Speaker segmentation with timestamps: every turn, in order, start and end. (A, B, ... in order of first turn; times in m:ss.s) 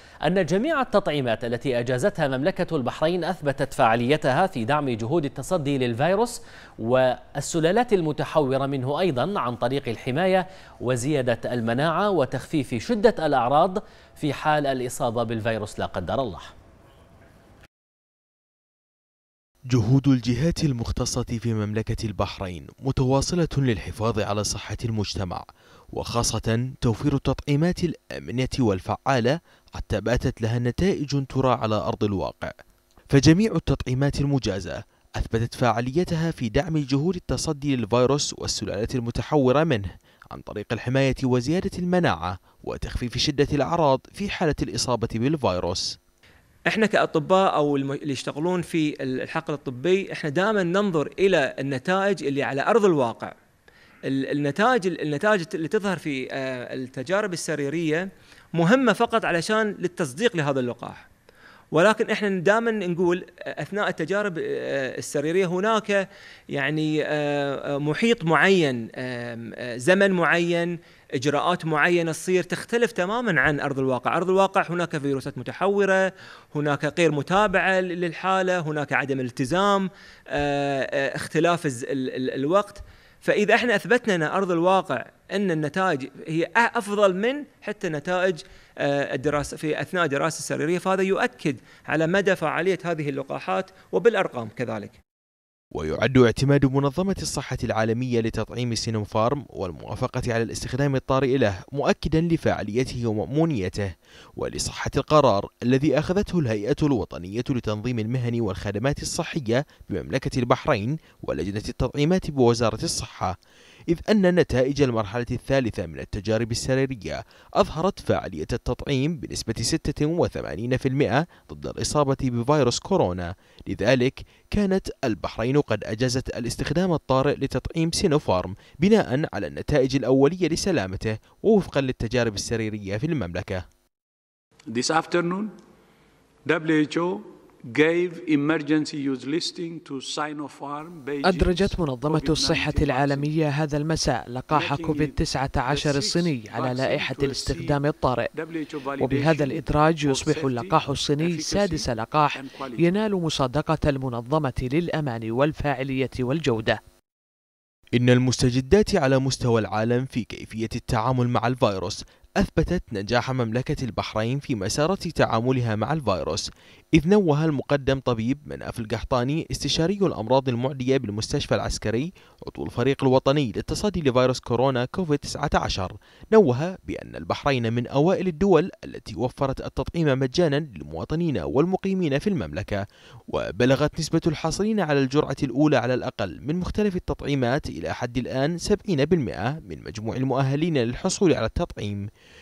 0:00.2-0:16.5 A
0:19.7-0:32.5 B
0:33.1-0:45.8 B
0:46.7-0:53.3 C
0:54.1-0:58.1 C
0:58.6-1:01.1 C
1:01.7-1:06.0 C
1:06.5-1:35.0 C
1:35.8-1:53.3 B
1:53.9-2:13.6 B
2:14.7-2:15.5 D
2:16.4-2:23.3 D
2:21.2-2:28.3 E
2:24.5-2:27.8 D
2:28.4-2:32.9 D
2:29.0-2:36.8 E
2:38.0-3:12.0 B